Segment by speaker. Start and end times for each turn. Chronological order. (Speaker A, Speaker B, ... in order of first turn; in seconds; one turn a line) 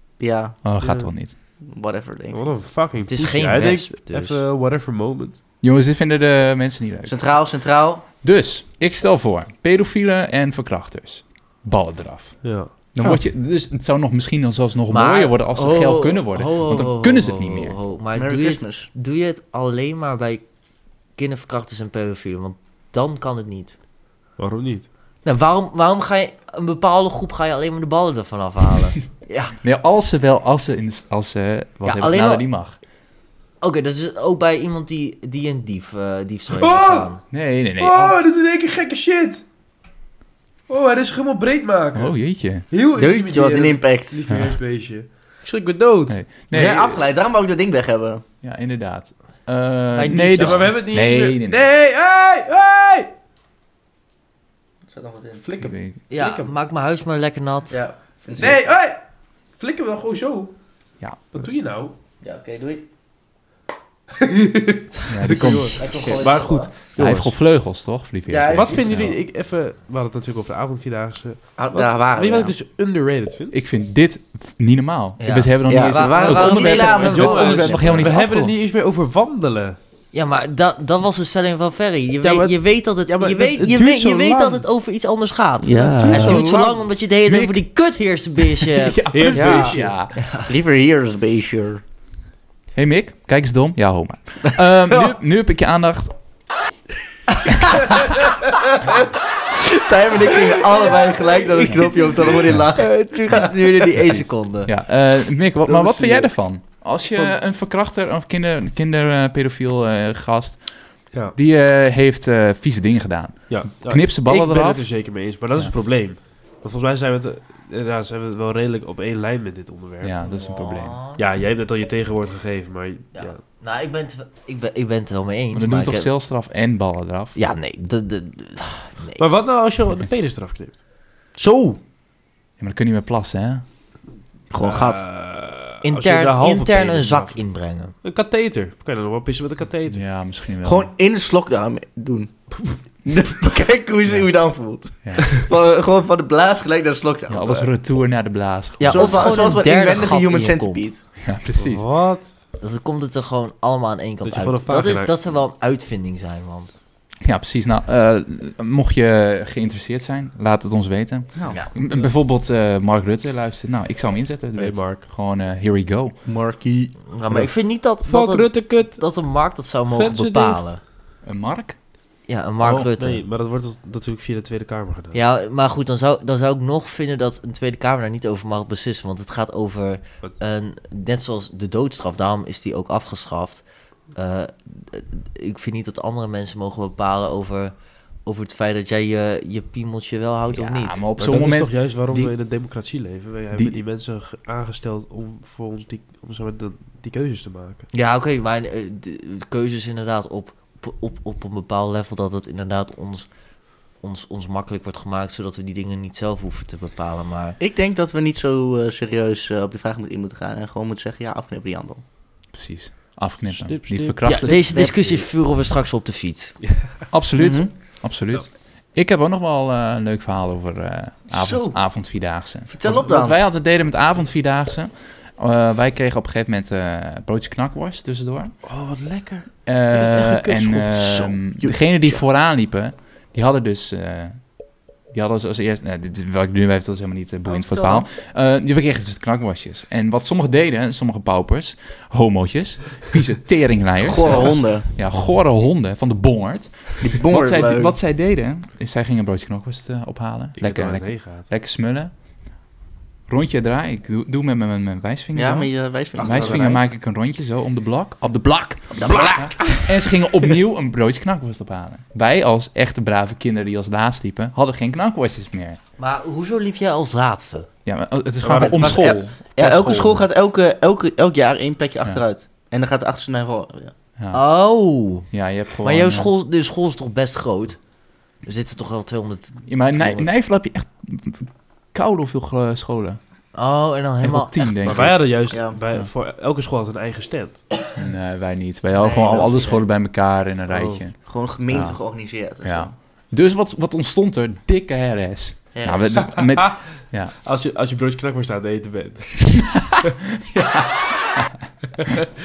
Speaker A: 0.2-0.6
Speaker B: 0.6-1.3
Speaker C: 0.8-1.1
Speaker A: 1.6-2.6
Speaker C: 2.3-5.4
Speaker D: 3.1-4.4
Speaker B: 5.6-7.2
Speaker A: 7.0-8.1
Speaker B: 8.2-17.8
Speaker C: 12.4-13.2
Speaker D: 14.9-20.4
Speaker A: 18.1-18.9
Speaker D: 21.1-23.8
Speaker C: 24.4-24.9
Speaker D: 25.2-29.5
Speaker B: 29.6-32.8
Speaker D: 31.8-32.5
Speaker D: 33.6-37.2
Speaker C: 36.6-37.1
Speaker B: 37.3-38.1
Speaker C: 37.8-39.4
Speaker C: 40.7-42.1
Speaker B: 41.9-42.6
Speaker C: 42.7-46.2
Speaker A: 43.0-44.2
Speaker B: 44.3-44.5
Speaker B: 46.1-47.0
Speaker A: 46.5-48.2
Speaker B: 48.4-51.6
Speaker D: 49.9-50.7
Speaker C: 50.3-53.1
Speaker A: 54.9-55.4
Speaker C: 55.4-56.5
Speaker B: 55.6-56.0
Speaker D: 56.1-57.8
Speaker A: 57.7-58.7
Speaker C: 58.4-60.5
Speaker B: 61.0-61.5
Speaker C: 61.3-62.0
Speaker A: 62.2-62.9
Speaker C: 64.2-67.3
Speaker B: 65.0-65.9
Speaker A: 65.8-66.7
Speaker B: 67.0-69.2
Speaker A: 68.3-69.0
Speaker C: 68.5-73.6
Speaker A: 71.6-72.5
Speaker B: 73.5-78.5
Speaker D: 75.2-78.1
Speaker A: 75.7-78.1
Speaker C: 76.2-79.8
Speaker D: 80.1-90.5
Speaker C: 82.2-84.6
Speaker A: 85.6-86.5
Speaker B: 86.0-87.6
Speaker C: 86.0-86.4
Speaker B: 88.6-90.2
Speaker C: 89.1-89.9
Speaker A: 89.3-91.8
Speaker B: 92.7-96.1
Speaker A: 97.6-103.9
Speaker D: 101.7-104.7
Speaker C: 101.7-102.5
Speaker B: 104.1-115.7
Speaker C: 105.7-106.3
Speaker C: 107.0-107.4
Speaker C: 113.5-120.2
Speaker B: 120.0-121.0
Speaker D: 120.2-121.2
Speaker C: 121.2-123.4
Speaker D: 123.1-126.1
Speaker B: 125.5-127.3
Speaker D: 127.3-129.2
Speaker C: 129.2-130.8
Speaker A: 131.4-131.8
Speaker B: 132.6-133.7
Speaker A: 134.5-135.1
Speaker C: 134.6-137.4
Speaker D: 135.8-137.9
Speaker C: 138.0-140.0
Speaker B: 139.9-140.9
Speaker A: 140.6-142.4
Speaker A: 143.0-147.7
Speaker B: 145.0-145.4
Speaker B: 147.3-149.4
Speaker D: 148.8-150.8
Speaker A: 148.8-151.1
Speaker B: 151.2-151.9
Speaker C: 151.6-152.3
Speaker D: 152.6-156.7
Speaker C: 154.2-155.1
Speaker B: 157.2-166.2
Speaker A: 161.3-161.6
Speaker C: 164.6-165.0
Speaker A: 166.2-167.5
Speaker D: 167.1-170.8
Speaker C: 168.0-169.0
Speaker C: 169.9-170.7
Speaker B: 171.2-171.8
Speaker D: 172.3-173.2
Speaker B: 172.6-172.9
Speaker C: 172.9-175.2
Speaker D: 175.1-187.7
Speaker D: 188.2-191.0
Speaker B: 190.5-192.3
Speaker C: 191.2-197.9
Speaker B: 193.5-193.8
Speaker D: 197.9-203.3
Speaker D: 204.0-207.6
Speaker A: 207.6-212.0
Speaker B: 212.5-214.7
Speaker C: 213.5-214.5
Speaker D: 214.2-216.6
Speaker A: 214.6-215.3
Speaker C: 216.6-217.0
Speaker B: 217.1-228.5
Speaker A: 217.3-217.7
Speaker A: 221.3-221.8
Speaker A: 222.7-223.4
Speaker C: 228.6-230.9
Speaker B: 229.6-234.5
Speaker A: 230.9-232.2
Speaker B: 235.1-252.1
Speaker C: 237.5-238.0
Speaker A: 244.0-244.8
Speaker A: 247.0-248.0
Speaker C: 250.6-251.5
Speaker B: 253.3-265.8
Speaker A: 255.3-256.8
Speaker C: 256.2-256.8
Speaker A: 258.9-259.9
Speaker D: 266.0-267.7
Speaker B: 267.9-270.2
Speaker A: 268.4-273.9
Speaker D: 268.6-269.2
Speaker D: 274.3-275.3
Speaker B: 275.3-276.3
Speaker D: 275.8-277.8
Speaker D: 278.4-280.3
Speaker B: 279.7-283.2
Speaker D: 283.5-285.2
Speaker B: 284.2-285.3
Speaker C: 284.9-287.6
Speaker A: 285.5-285.8
Speaker B: 287.9-292.0
Speaker A: 288.9-289.8
Speaker A: 290.7-292.9
Speaker B: 292.6-297.3
Speaker A: 295.7-296.4
Speaker C: 296.4-296.7
Speaker C: 297.4-299.8
Speaker B: 299.6-301.7